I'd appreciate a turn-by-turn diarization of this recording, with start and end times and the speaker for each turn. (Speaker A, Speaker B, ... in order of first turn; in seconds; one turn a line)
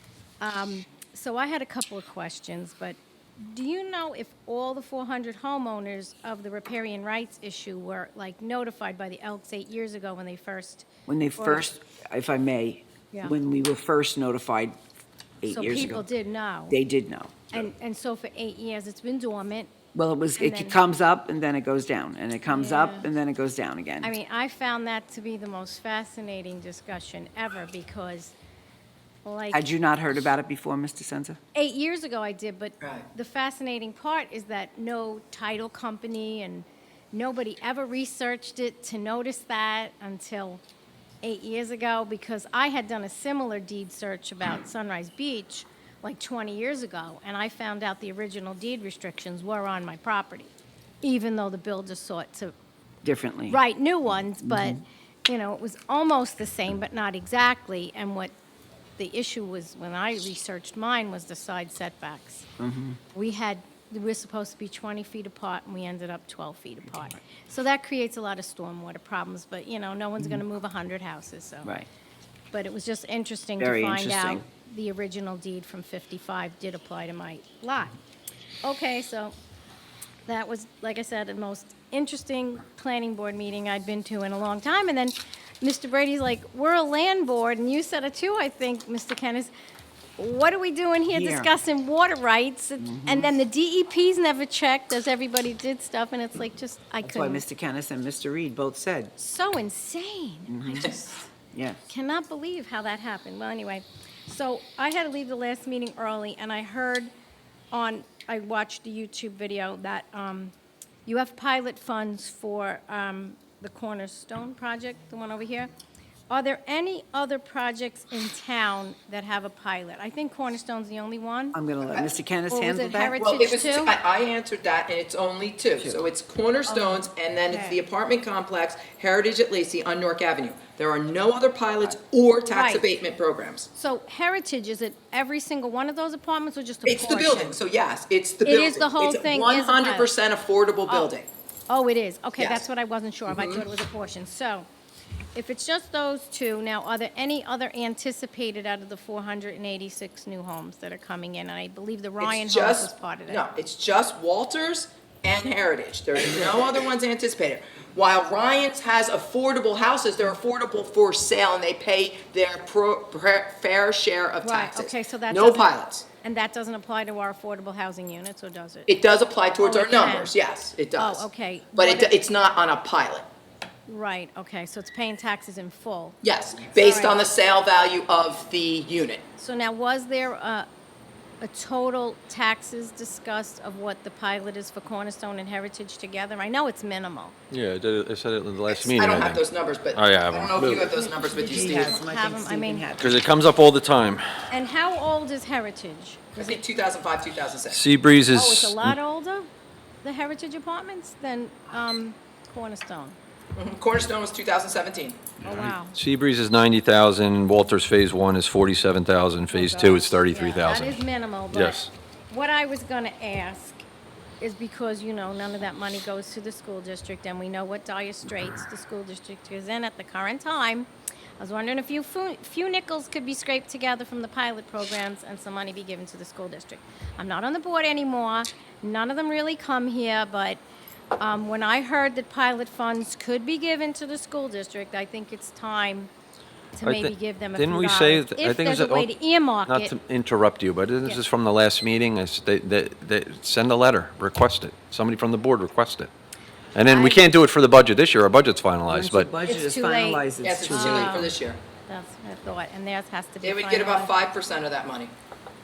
Speaker A: 0.4-11.7
Speaker B: 11.1-14.8
Speaker B: 15.4-16.1
Speaker A: 15.5-16.8
Speaker B: 16.7-17.6
Speaker A: 17.5-19.7
Speaker B: 19.9-24.1
Speaker A: 20.3-20.8
Speaker A: 22.5-23.1
Speaker A: 24.0-28.3
Speaker A: 29.2-29.7
Speaker B: 29.5-31.4
Speaker A: 31.5-40.6
Speaker A: 41.2-52.5
Speaker B: 53.0-53.6
Speaker A: 53.5-58.3
Speaker B: 54.4-54.8
Speaker A: 59.0-62.5
Speaker B: 62.6-63.0
Speaker A: 63.1-71.7
Speaker A: 72.5-77.9
Speaker B: 73.6-74.4
Speaker A: 78.6-79.3
Speaker A: 80.3-89.5
Speaker A: 90.2-97.4
Speaker B: 91.1-91.5
Speaker B: 92.8-93.3
Speaker B: 97.0-99.1
Speaker A: 99.2-101.1
Speaker B: 100.5-101.8
Speaker A: 101.9-107.1
Speaker A: 107.7-110.5
Speaker A: 111.0-115.7
Speaker A: 116.3-121.6
Speaker B: 121.5-123.2
Speaker A: 122.5-124.0
Speaker C: 123.2-133.7
Speaker A: 126.7-127.8
Speaker A: 132.5-132.8
Speaker A: 133.7-137.6
Speaker C: 136.8-141.3
Speaker A: 138.4-140.1
Speaker A: 141.7-144.7
Speaker C: 142.4-142.7
Speaker C: 143.3-143.6
Speaker A: 145.3-153.4
Speaker C: 152.2-166.0
Speaker A: 164.4-168.9
Speaker C: 168.9-173.2
Speaker A: 169.6-170.3
Speaker A: 171.0-172.2
Speaker A: 173.9-176.2
Speaker C: 176.2-179.2
Speaker A: 176.7-177.2
Speaker A: 179.4-180.7
Speaker A: 181.4-187.3
Speaker D: 187.5-190.9
Speaker C: 188.7-192.0
Speaker A: 190.9-192.9
Speaker B: 190.9-193.2
Speaker D: 193.0-194.3
Speaker A: 194.5-196.6
Speaker C: 196.3-197.8
Speaker D: 197.7-198.9
Speaker A: 198.3-199.5
Speaker A: 200.0-203.2
Speaker C: 203.6-205.3
Speaker A: 205.4-206.0
Speaker D: 205.5-211.0
Speaker A: 209.5-213.8
Speaker D: 211.5-211.9
Speaker A: 214.4-230.6
Speaker A: 231.2-236.1
Speaker A: 236.7-239.9
Speaker D: 236.8-239.1
Speaker D: 239.7-246.1
Speaker D: 246.7-249.3
Speaker A: 246.8-247.3
Speaker B: 248.9-251.3
Speaker A: 249.4-251.3
Speaker C: 250.4-251.6
Speaker A: 251.9-254.1
Speaker C: 253.4-255.1